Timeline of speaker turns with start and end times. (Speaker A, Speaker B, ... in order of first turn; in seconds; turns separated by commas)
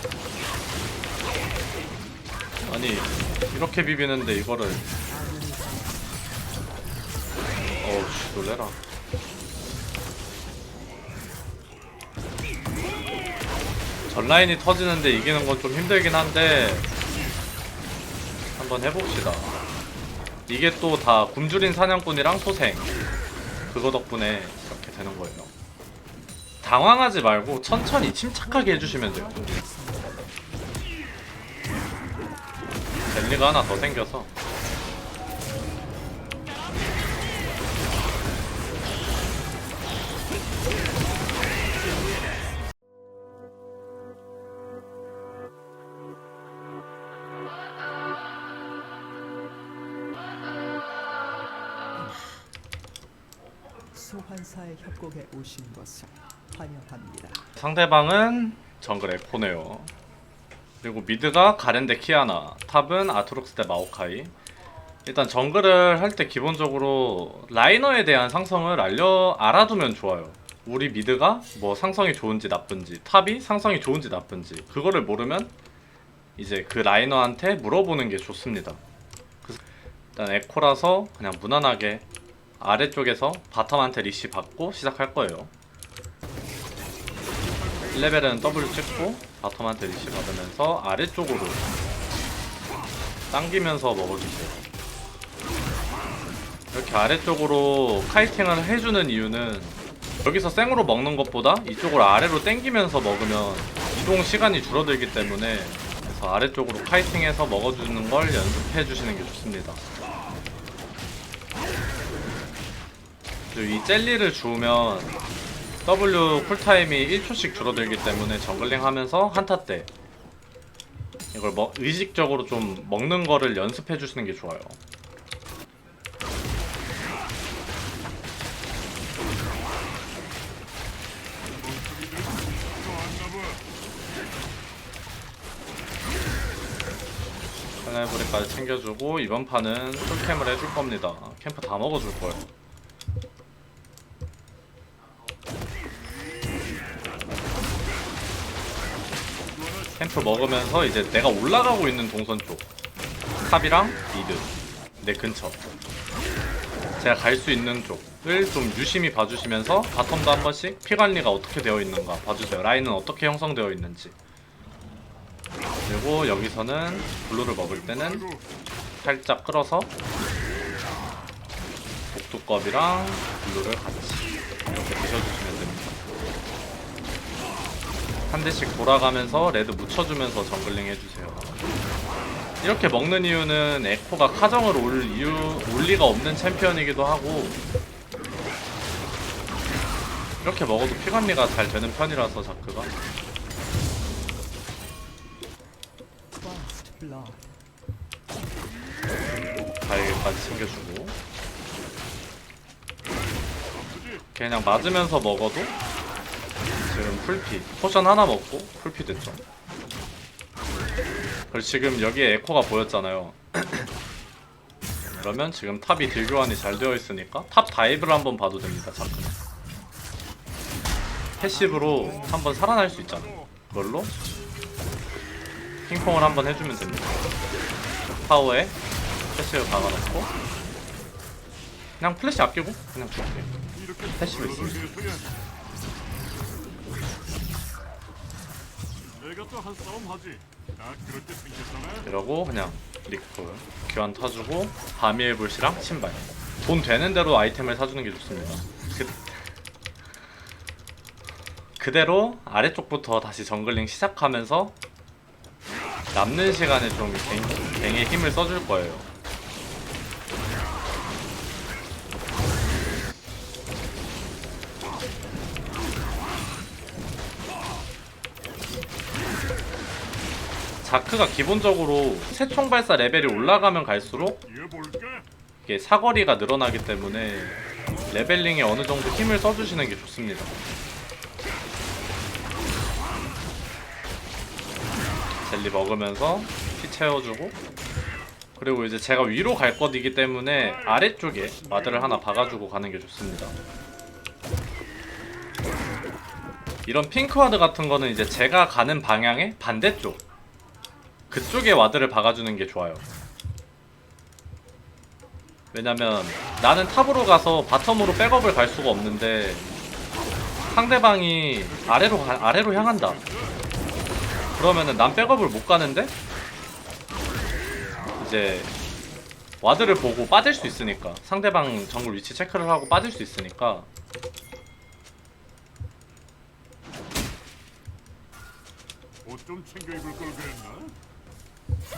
Speaker A: 2.6-4.9, Speaker B: 5.1-6.1, Speaker A: 7.7-8.8, Speaker A: 14.1-16.9, Speaker A: 18.6-19.6, Speaker A: 20.5-22.9, Speaker A: 23.7-25.5, Speaker A: 26.6-29.4, Speaker B: 28.4-30.2, Speaker A: 33.1-34.3, Speaker B: 53.9-57.4, Speaker A: 57.5-59.9, Speaker A: 60.8-64.3, Speaker A: 65.0-75.5, Speaker A: 76.4-78.8, Speaker A: 80.2-82.0, Speaker A: 82.6-85.5, Speaker C: 87.4-89.2, Speaker A: 87.9-91.6, Speaker A: 93.3-94.7, Speaker A: 96.7-109.8, Speaker A: 113.5-115.1, Speaker A: 115.8-119.9, Speaker C: 116.2-118.3, Speaker A: 121.3-124.8, Speaker C: 131.5-133.6, Speaker A: 137.8-142.5, Speaker C: 149.5-150.8, Speaker A: 150.0-152.7, Speaker A: 153.4-155.6, Speaker A: 157.0-164.1, Speaker A: 165.8-168.3, Speaker C: 167.0-168.4, Speaker A: 169.0-169.9, Speaker A: 172.1-176.0, Speaker A: 178.3-181.5, Speaker A: 182.6-187.6, Speaker A: 190.4-192.9, Speaker B: 196.4-197.6, Speaker A: 199.8-201.2, Speaker C: 203.6-204.2, Speaker A: 204.3-205.7, Speaker A: 206.8-209.4, Speaker A: 211.5-213.9, Speaker A: 215.0-219.3, Speaker A: 221.4-224.1, Speaker C: 221.5-223.5, Speaker A: 225.9-227.3, Speaker A: 228.0-228.8, Speaker A: 229.3-230.3, Speaker A: 232.0-233.5, Speaker C: 233.7-235.3, Speaker A: 234.1-234.8, Speaker C: 239.2-242.1, Speaker A: 242.1-249.5, Speaker A: 251.8-254.7, Speaker A: 256.1-259.1, Speaker A: 270.8-274.4, Speaker C: 274.4-275.2, Speaker A: 275.6-280.6, Speaker A: 285.4-287.6, Speaker A: 288.6-293.6, Speaker C: 290.5-292.6, Speaker A: 296.9-300.2, Speaker A: 301.3-303.0, Speaker A: 305.7-309.6, Speaker A: 310.7-313.2, Speaker C: 311.7-313.6, Speaker A: 314.5-316.1, Speaker A: 318.2-318.7, Speaker A: 319.6-323.9, Speaker C: 329.2-330.9